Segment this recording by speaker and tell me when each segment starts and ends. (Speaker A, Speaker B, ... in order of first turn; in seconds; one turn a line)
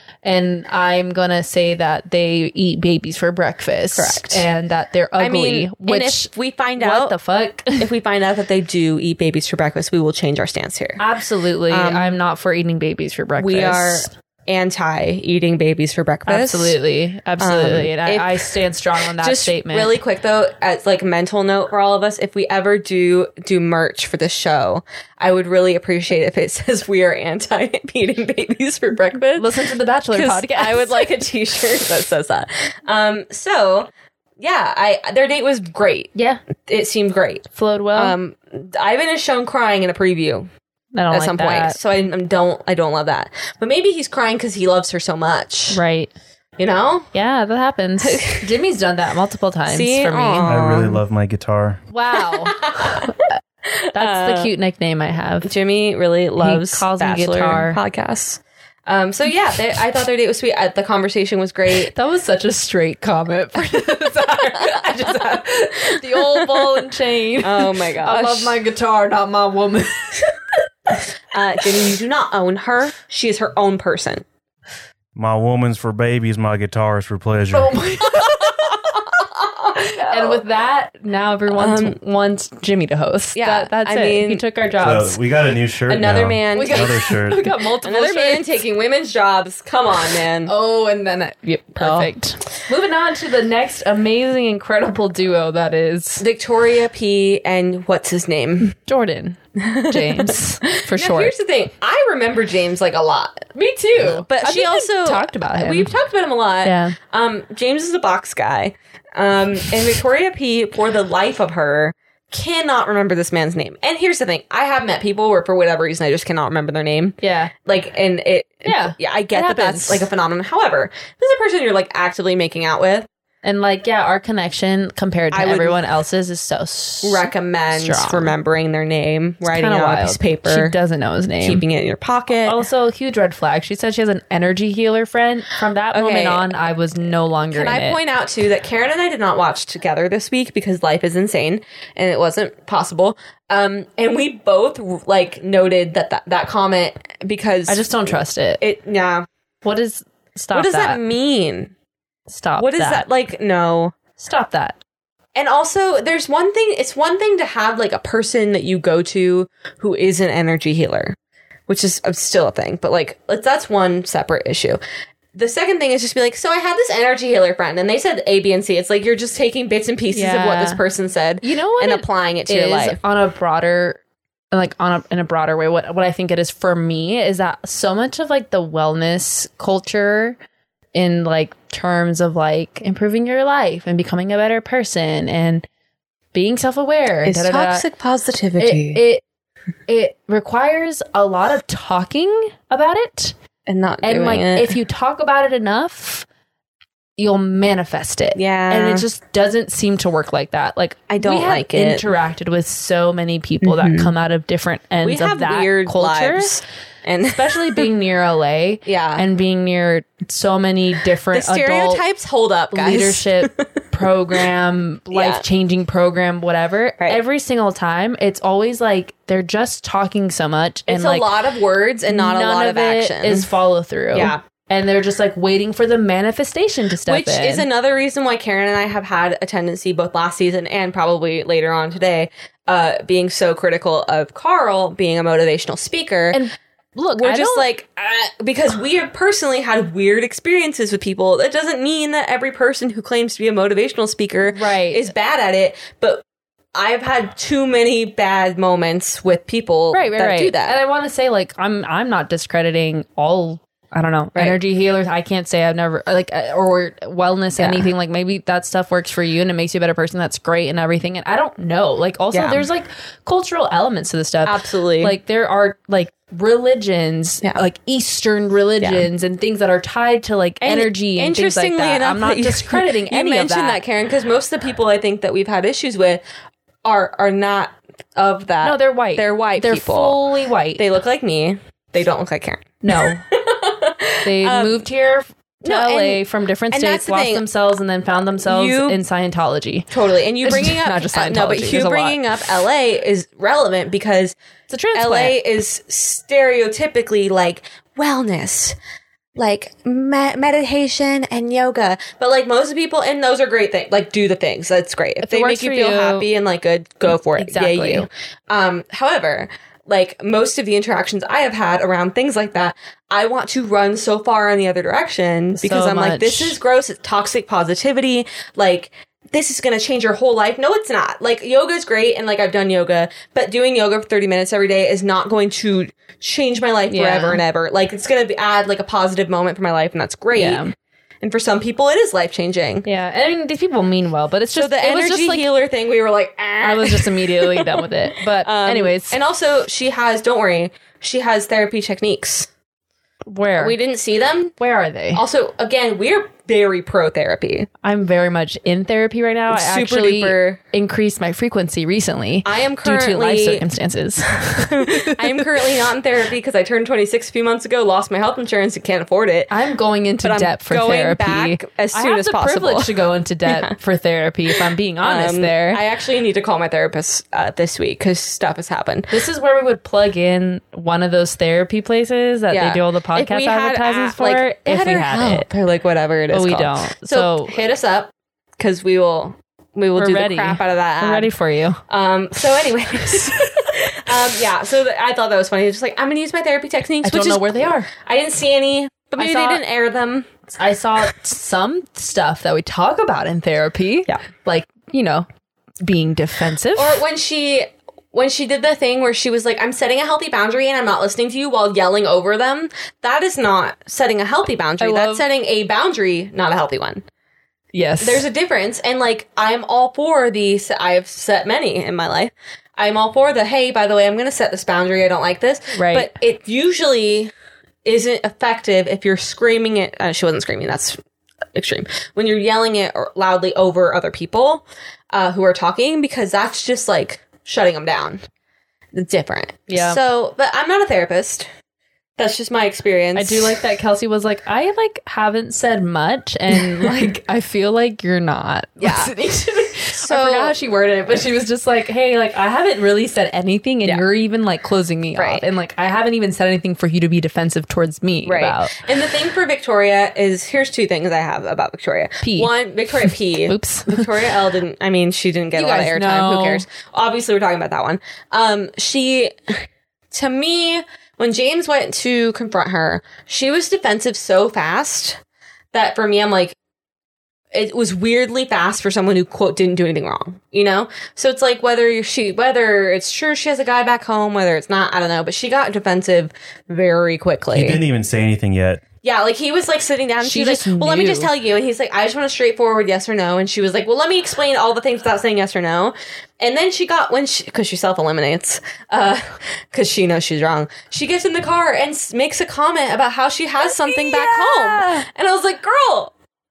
Speaker A: 0.2-7.9
Speaker B: 3.9-4.5
Speaker B: 5.2-7.2
Speaker B: 7.8-11.0
Speaker A: 11.0-14.1
Speaker B: 11.7-12.1
Speaker B: 13.4-16.8
Speaker A: 16.2-19.9
Speaker B: 17.4-18.6
Speaker B: 19.2-29.5
Speaker A: 29.4-31.1
Speaker B: 30.1-36.1
Speaker A: 36.1-36.4
Speaker B: 36.6-40.5
Speaker A: 37.5-38.1
Speaker A: 40.9-41.8
Speaker B: 41.1-45.8
Speaker A: 45.7-46.1
Speaker B: 46.6-47.1
Speaker A: 47.1-50.5
Speaker B: 48.0-48.5
Speaker B: 49.7-51.0
Speaker C: 50.4-51.8
Speaker A: 51.9-53.4
Speaker B: 52.2-53.1
Speaker B: 53.7-54.5
Speaker A: 53.9-55.5
Speaker B: 55.4-61.9
Speaker A: 56.4-57.8
Speaker A: 61.9-70.3
Speaker B: 64.5-66.9
Speaker B: 67.4-68.5
Speaker B: 71.3-74.2
Speaker C: 75.2-77.8
Speaker A: 77.5-78.7
Speaker B: 78.1-80.4
Speaker A: 79.8-85.2
Speaker B: 81.5-82.0
Speaker B: 83.3-84.4
Speaker C: 84.8-87.5
Speaker B: 85.9-87.1
Speaker A: 86.5-88.5
Speaker B: 87.8-90.5
Speaker A: 90.5-96.2
Speaker B: 91.8-92.1
Speaker B: 96.2-98.7
Speaker A: 98.7-101.3
Speaker B: 99.6-103.5
Speaker A: 103.5-105.9
Speaker B: 104.0-123.1
Speaker A: 106.6-107.0
Speaker A: 117.2-117.5
Speaker A: 118.6-120.0
Speaker A: 123.4-128.3
Speaker B: 125.3-125.8
Speaker B: 127.0-130.7
Speaker A: 129.5-131.6
Speaker B: 131.4-132.6
Speaker A: 132.4-138.0
Speaker B: 135.9-136.5
Speaker B: 137.5-149.2
Speaker A: 147.7-148.6
Speaker A: 149.6-151.0
Speaker B: 150.5-151.7
Speaker A: 152.3-153.1
Speaker B: 152.6-153.9
Speaker A: 154.2-154.8
Speaker B: 155.3-161.2
Speaker B: 161.7-164.8
Speaker B: 165.3-173.0
Speaker A: 170.1-170.8
Speaker A: 171.4-174.0
Speaker A: 174.5-180.4
Speaker A: 180.9-185.6
Speaker A: 186.3-187.8
Speaker B: 187.2-189.0
Speaker A: 188.6-189.2
Speaker A: 189.9-193.3
Speaker B: 193.7-194.7
Speaker A: 194.0-196.2
Speaker A: 197.2-206.6
Speaker B: 198.3-199.0
Speaker B: 201.1-202.1
Speaker B: 203.6-204.1
Speaker B: 205.0-207.9
Speaker A: 207.3-212.0
Speaker B: 208.8-209.2
Speaker B: 211.3-213.7
Speaker A: 212.7-221.3
Speaker B: 215.1-215.4
Speaker B: 220.9-223.5
Speaker A: 222.1-227.7
Speaker B: 224.1-224.4
Speaker B: 227.1-236.4
Speaker A: 236.3-237.7
Speaker B: 237.2-246.2
Speaker A: 244.4-245.1
Speaker B: 246.7-250.8
Speaker A: 249.9-273.8
Speaker B: 257.6-257.9
Speaker B: 262.3-262.7
Speaker B: 264.4-265.1
Speaker B: 268.8-269.1
Speaker B: 270.6-276.2
Speaker B: 276.8-280.2
Speaker A: 278.6-280.9
Speaker B: 280.8-284.9
Speaker A: 282.8-283.2
Speaker A: 284.2-289.9
Speaker B: 285.6-287.4
Speaker B: 288.4-289.0
Speaker B: 289.9-294.4
Speaker A: 290.4-292.2
Speaker A: 294.7-295.4
Speaker B: 294.9-298.8
Speaker B: 299.4-330.7
Speaker A: 305.2-306.3
Speaker A: 307.4-308.1
Speaker A: 315.6-316.6
Speaker A: 326.9-327.4
Speaker A: 330.3-330.7
Speaker B: 331.2-332.9
Speaker A: 332.9-335.5
Speaker B: 334.5-337.9
Speaker A: 336.6-339.2
Speaker B: 338.4-342.5
Speaker A: 343.3-343.8
Speaker B: 343.6-344.5
Speaker A: 344.6-345.2
Speaker B: 345.1-347.7
Speaker A: 347.8-355.7
Speaker B: 349.5-350.6
Speaker B: 352.4-353.6
Speaker B: 354.4-359.5
Speaker A: 359.5-365.8
Speaker B: 360.2-363.7
Speaker B: 365.0-369.2
Speaker A: 369.1-375.5
Speaker B: 372.5-381.3
Speaker A: 376.3-377.6
Speaker A: 379.9-381.8
Speaker B: 381.9-390.3
Speaker A: 387.0-387.9
Speaker A: 389.1-389.6
Speaker A: 390.5-395.3
Speaker A: 395.8-397.0
Speaker B: 396.7-407.0
Speaker A: 404.8-405.2
Speaker A: 407.7-408.3
Speaker B: 408.0-417.3
Speaker A: 415.7-416.1
Speaker B: 417.9-421.0
Speaker B: 421.5-428.2
Speaker B: 428.9-431.5
Speaker A: 429.7-430.0
Speaker B: 432.2-433.6
Speaker A: 433.1-448.8
Speaker B: 436.6-437.1
Speaker B: 438.8-439.1
Speaker B: 439.9-440.6
Speaker B: 445.1-445.4
Speaker B: 448.2-465.2
Speaker A: 452.2-452.5
Speaker A: 453.4-454.1
Speaker A: 455.5-456.6
Speaker B: 465.7-466.6
Speaker B: 467.5-477.8
Speaker C: 477.5-478.8
Speaker B: 479.0-496.1
Speaker A: 480.2-481.3
Speaker A: 493.6-495.1